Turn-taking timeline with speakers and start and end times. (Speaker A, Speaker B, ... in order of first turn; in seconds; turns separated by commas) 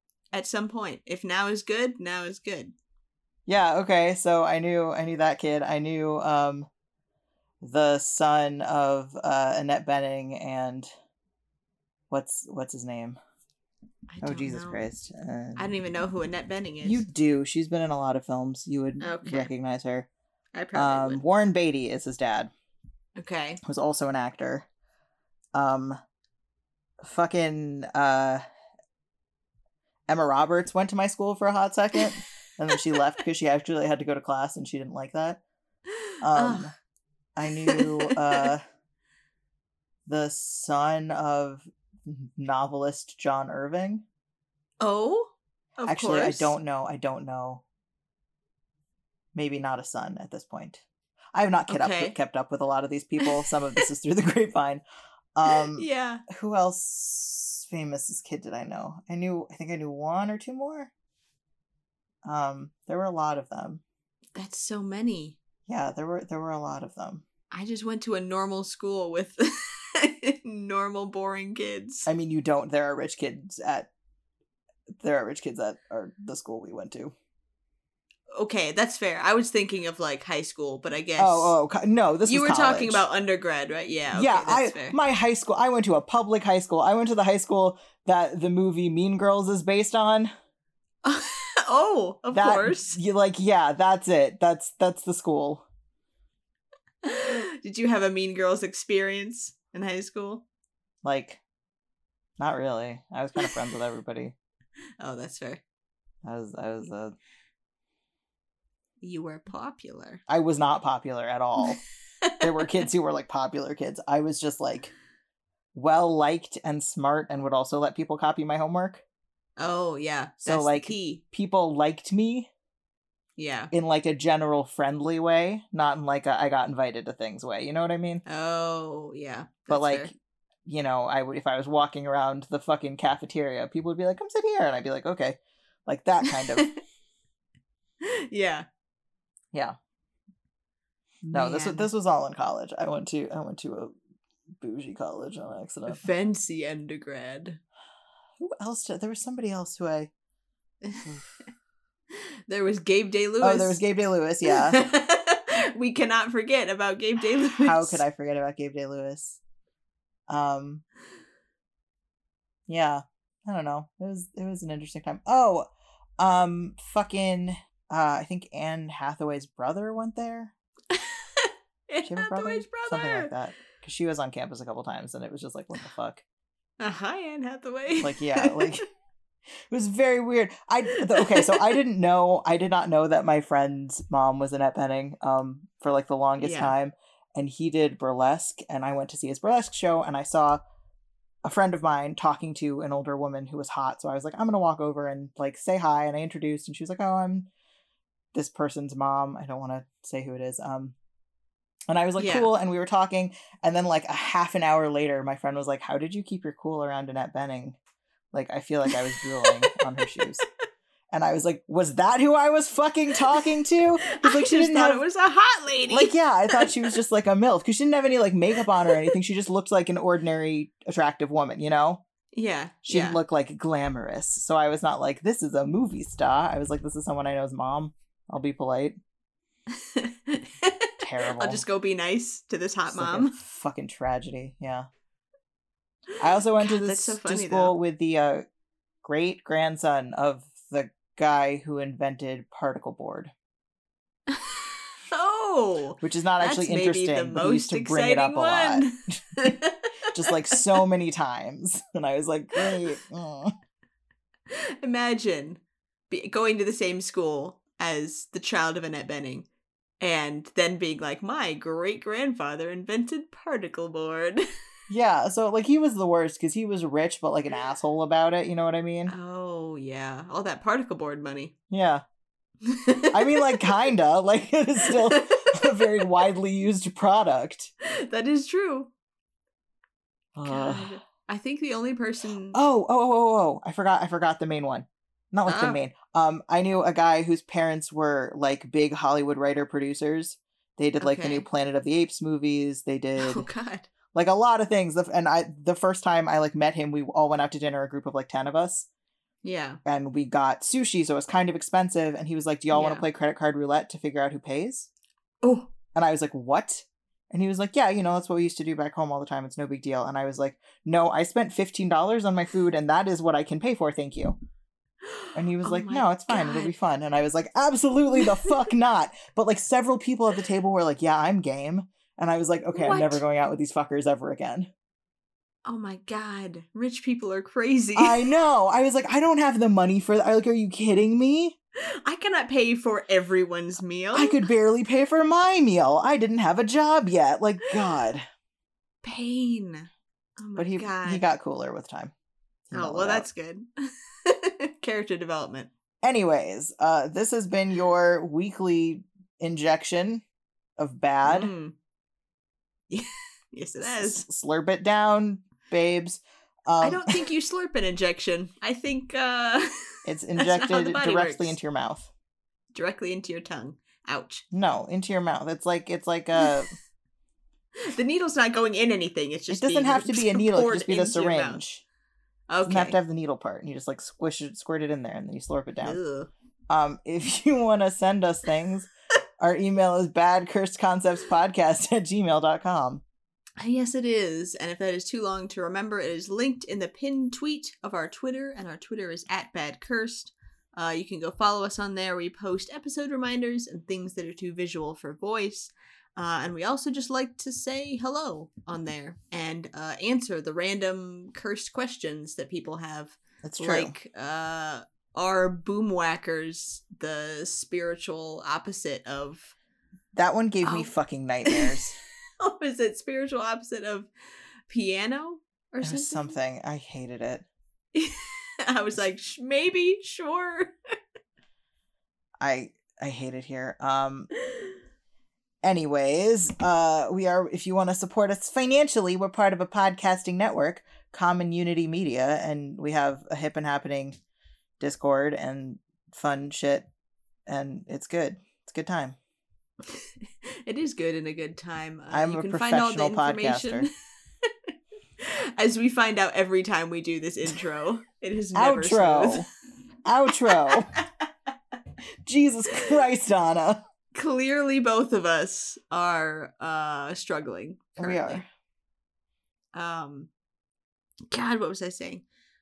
Speaker A: 0.3-2.7, Speaker B: 3.5-6.7, Speaker B: 7.6-10.9, Speaker B: 12.1-13.2, Speaker A: 14.1-14.9, Speaker B: 14.2-15.7, Speaker A: 15.6-17.0, Speaker B: 16.8-20.1, Speaker A: 19.0-19.5, Speaker A: 20.5-21.2, Speaker B: 20.7-22.5, Speaker A: 23.2-23.6, Speaker B: 23.6-24.7, Speaker B: 25.5-26.0, Speaker B: 27.0-28.4, Speaker B: 30.1-35.4, Speaker A: 36.1-36.7, Speaker B: 36.2-36.7, Speaker B: 37.4-38.6, Speaker A: 37.5-38.5, Speaker B: 40.1-44.0, Speaker A: 44.8-46.5, Speaker B: 45.9-47.6, Speaker B: 49.4-54.8, Speaker A: 51.7-52.2, Speaker A: 53.2-53.8, Speaker B: 55.4-60.9, Speaker A: 55.5-56.2, Speaker B: 62.2-63.8, Speaker A: 64.3-65.4, Speaker B: 65.7-67.2, Speaker A: 67.5-72.1, Speaker B: 72.1-73.9, Speaker B: 75.0-77.1, Speaker A: 78.3-81.6, Speaker B: 81.2-83.0, Speaker A: 82.3-85.0, Speaker B: 84.1-90.3, Speaker A: 91.0-93.0, Speaker B: 92.3-95.7, Speaker A: 97.0-100.5, Speaker B: 101.0-101.4, Speaker B: 102.4-104.3, Speaker A: 105.0-105.6, Speaker B: 106.2-107.2, Speaker A: 109.0-110.2, Speaker B: 110.3-111.8, Speaker B: 112.4-114.9, Speaker B: 115.7-119.0, Speaker A: 119.6-121.2, Speaker B: 120.4-122.5, Speaker A: 123.4-123.7, Speaker B: 123.7-128.2, Speaker A: 128.3-130.1, Speaker B: 129.7-130.1, Speaker B: 130.7-136.7, Speaker A: 138.0-138.7, Speaker B: 141.3-144.0, Speaker A: 141.3-141.9, Speaker B: 144.6-146.0, Speaker A: 145.9-147.6, Speaker B: 148.4-150.1, Speaker B: 151.0-151.3, Speaker A: 152.1-153.8, Speaker B: 153.4-154.8, Speaker A: 154.5-158.0, Speaker B: 157.5-159.4, Speaker B: 160.3-160.8, Speaker B: 162.7-170.5, Speaker A: 170.9-173.3, Speaker B: 172.1-176.2, Speaker A: 176.8-178.8, Speaker B: 178.0-178.8, Speaker B: 179.7-190.6, Speaker A: 181.0-181.7, Speaker A: 186.4-186.8, Speaker B: 191.4-197.5, Speaker B: 198.3-200.9, Speaker B: 201.9-207.8, Speaker A: 202.2-202.5, Speaker B: 208.3-210.4, Speaker A: 208.9-209.8, Speaker B: 211.1-215.0, Speaker A: 214.1-217.0, Speaker B: 215.9-222.0, Speaker A: 222.3-223.2, Speaker B: 222.9-229.0, Speaker A: 229.7-233.3, Speaker B: 231.0-231.6, Speaker B: 232.9-234.9, Speaker B: 236.2-238.5, Speaker A: 236.6-237.8, Speaker B: 239.0-243.3, Speaker A: 244.3-250.6, Speaker B: 246.0-249.5, Speaker B: 250.1-253.5, Speaker A: 254.5-259.5, Speaker A: 260.0-264.5, Speaker B: 264.9-269.1, Speaker A: 269.1-271.5, Speaker B: 271.7-272.0, Speaker A: 272.7-273.6, Speaker B: 273.1-277.7, Speaker A: 274.8-275.6, Speaker A: 277.8-278.9, Speaker B: 280.4-281.0, Speaker A: 280.4-282.6, Speaker B: 282.5-293.5, Speaker A: 285.5-285.8, Speaker A: 291.0-291.5, Speaker A: 293.2-293.9, Speaker B: 294.1-298.9, Speaker A: 299.4-299.8, Speaker B: 299.9-304.9, Speaker A: 302.7-303.1, Speaker A: 305.4-305.7, Speaker B: 305.9-314.4, Speaker A: 315.1-316.7, Speaker B: 315.4-324.7, Speaker A: 318.2-318.5, Speaker A: 322.7-323.2, Speaker A: 325.6-328.3, Speaker B: 328.0-331.6, Speaker A: 331.8-334.4, Speaker B: 334.1-338.3, Speaker A: 339.0-341.3, Speaker B: 340.6-342.1, Speaker B: 342.7-343.3, Speaker A: 342.7-345.7, Speaker B: 346.0-350.2, Speaker B: 350.8-351.5, Speaker A: 351.2-351.8, Speaker A: 352.9-354.2, Speaker B: 353.8-357.3, Speaker A: 356.8-361.6, Speaker B: 360.1-362.1, Speaker A: 362.7-364.4, Speaker B: 364.5-366.7, Speaker A: 367.8-371.6, Speaker B: 369.5-371.8, Speaker A: 372.5-373.0, Speaker B: 372.6-376.0, Speaker A: 375.8-376.3, Speaker B: 376.7-378.9, Speaker B: 379.4-383.0, Speaker A: 383.6-409.5, Speaker B: 403.4-404.0, Speaker B: 410.1-412.0, Speaker A: 410.6-410.9, Speaker A: 411.5-411.8, Speaker A: 412.4-414.1, Speaker A: 414.7-416.4, Speaker B: 415.8-417.5, Speaker A: 417.9-420.7, Speaker B: 422.4-424.3, Speaker B: 425.6-434.2, Speaker B: 434.8-436.9, Speaker B: 437.5-439.2, Speaker A: 439.9-443.9, Speaker B: 442.1-443.9, Speaker A: 445.2-449.4, Speaker B: 448.5-449.5, Speaker B: 450.1-450.9, Speaker B: 452.2-453.8, Speaker A: 454.1-458.4, Speaker B: 458.0-458.5, Speaker A: 459.7-460.3, Speaker A: 461.3-462.2